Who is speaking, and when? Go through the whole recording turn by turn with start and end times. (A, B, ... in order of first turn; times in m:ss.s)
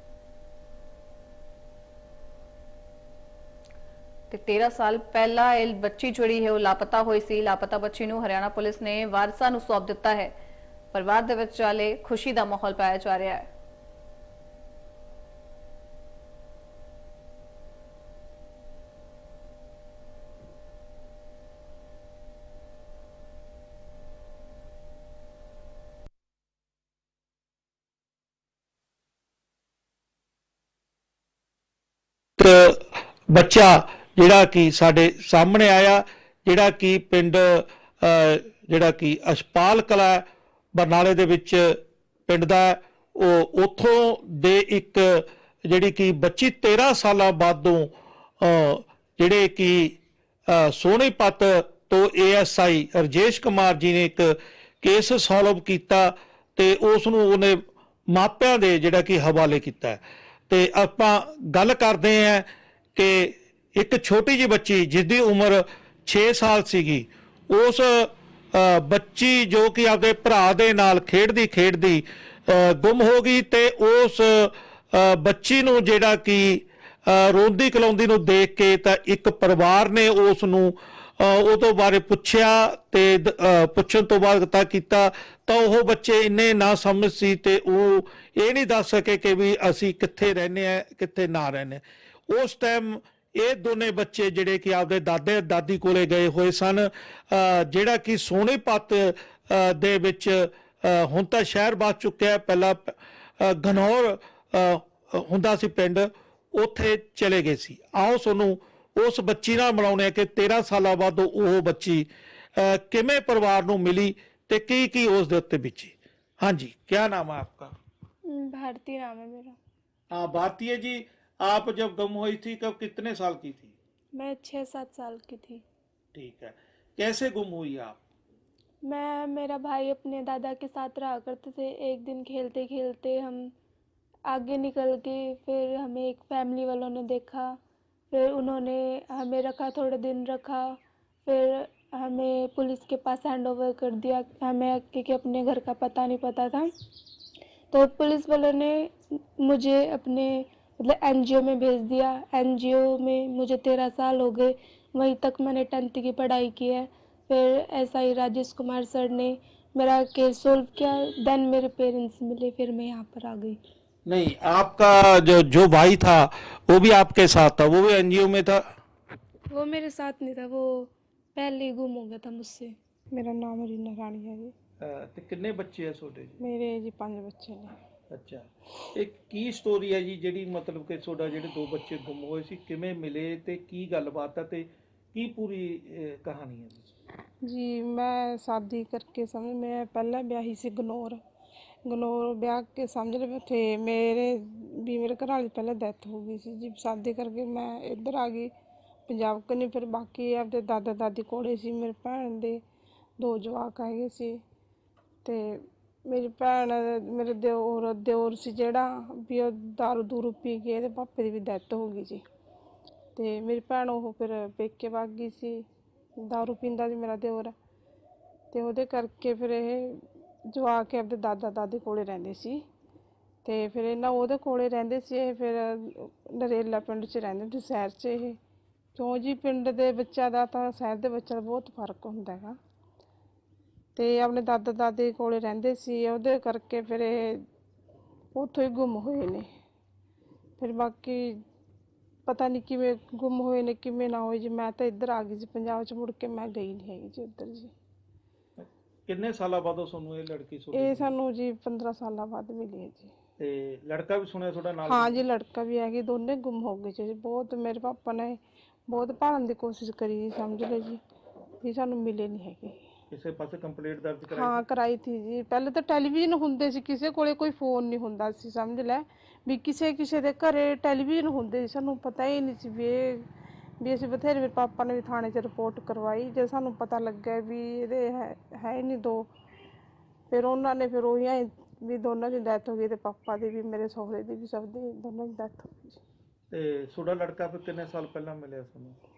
0:04.3-0:10.3 A
0:10.9-0:13.4 A
0:32.4-0:40.2 B
0:40.8-1:57.7 B
1:58.3-1:59.6 C
2:00.1-2:03.8 B
2:04.1-2:05.6 C
2:06.1-2:08.0 B
2:08.8-2:13.5 C
2:14.3-2:17.6 C
2:18.1-2:26.7 C
2:27.7-2:43.6 C
2:44.1-2:48.6 B
2:49.5-2:52.8 C
2:53.1-2:54.5 D
2:54.8-2:56.4 B
2:56.4-2:57.8 D
2:58.1-3:06.9 B
3:07.4-3:11.2 D
3:11.9-3:18.5 D
3:19.1-3:22.6 D
3:23.2-3:24.4 D
3:25.2-3:32.2 D
3:33.2-3:35.6 D
3:36.3-3:37.5 D
3:38.5-3:42.6 D
3:43.4-3:48.4 D
3:49.0-3:52.6 D
3:54.0-3:57.4 D
3:58.4-3:59.4 D
4:00.6-4:01.4 D
4:02.3-4:07.7 D
4:08.6-4:11.1 B
4:10.7-4:13.1 D
4:13.4-4:15.2 B
4:14.9-4:21.0 D
4:21.6-4:22.8 D
4:23.1-4:24.6 B
4:24.3-4:33.3 D
4:33.8-4:39.3 D
4:40.3-4:46.0 D
4:46.5-4:49.0 B